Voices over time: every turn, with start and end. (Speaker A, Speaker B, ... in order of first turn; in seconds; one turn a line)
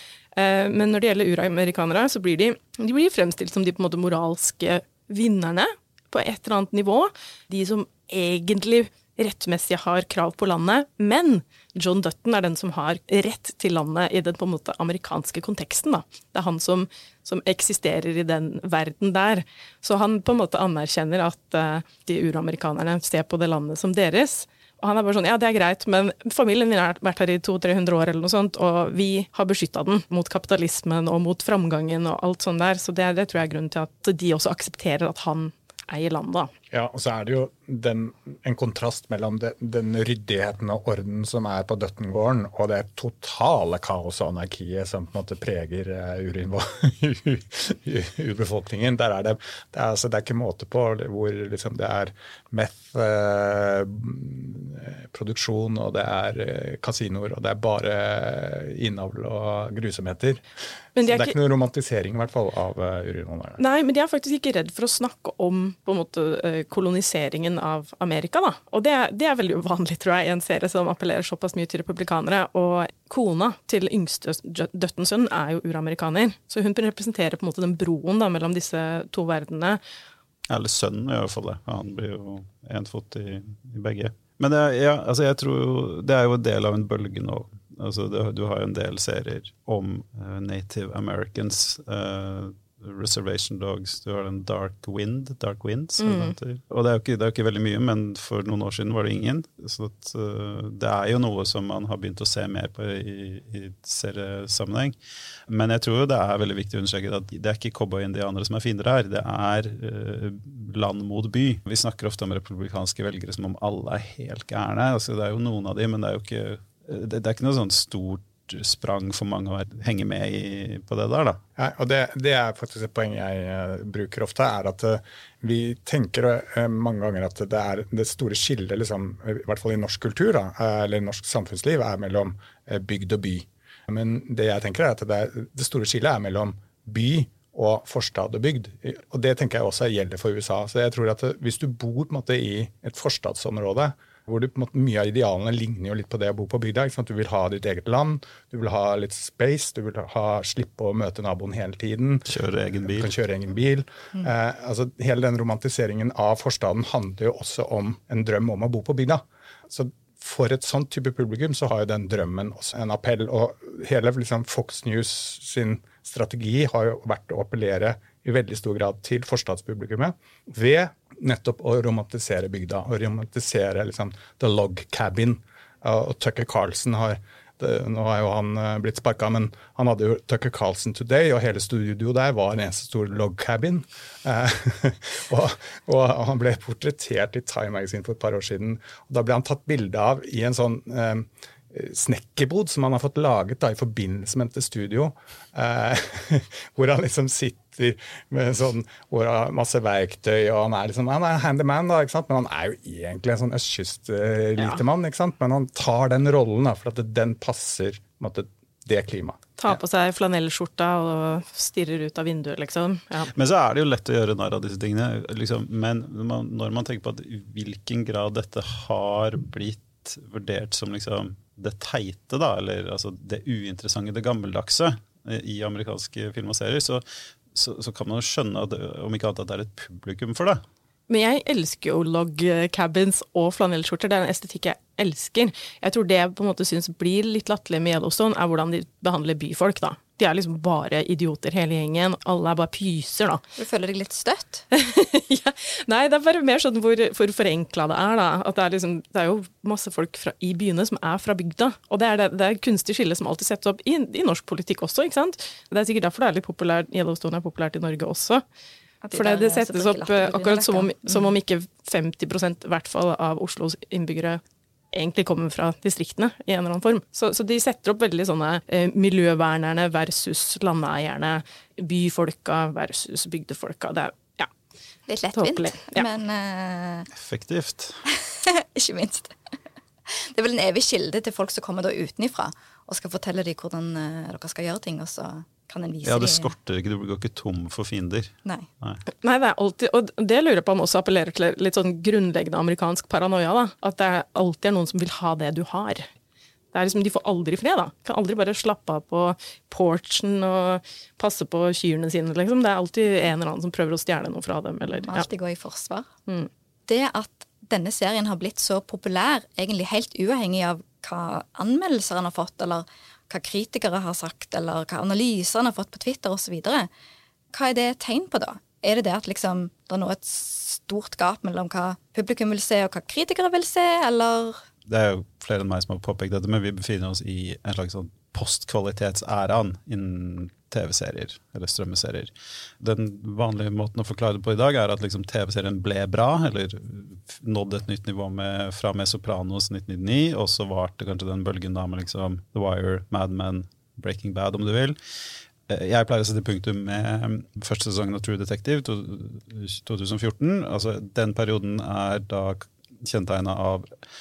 Speaker A: 0.3-36.5
Speaker B: 36.7-60.4
Speaker A: 61.0-61.3
Speaker B: 61.0-63.6
Speaker A: 63.6-79.8
Speaker C: 80.5-105.0
Speaker A: 96.0-96.3
Speaker C: 105.5-121.4
Speaker B: 121.6-209.8
Speaker C: 152.3-153.1
Speaker A: 209.6-213.3
Speaker C: 213.3-230.6
Speaker A: 231.1-243.4
Speaker D: 243.6-244.7
Speaker A: 244.7-258.4
Speaker D: 259.0-261.3
Speaker A: 259.1-264.4
Speaker A: 264.9-274.5
Speaker D: 275.1-277.1
Speaker A: 275.3-276.1
Speaker C: 277.1-278.0
Speaker D: 278.1-279.4
Speaker D: 280.1-286.5
Speaker C: 286.0-289.0
Speaker A: 289.1-296.1
Speaker A: 296.7-305.3
Speaker D: 304.9-306.1
Speaker D: 306.9-316.9
Speaker D: 317.5-324.6
Speaker C: 324.9-345.0
Speaker C: 345.7-353.9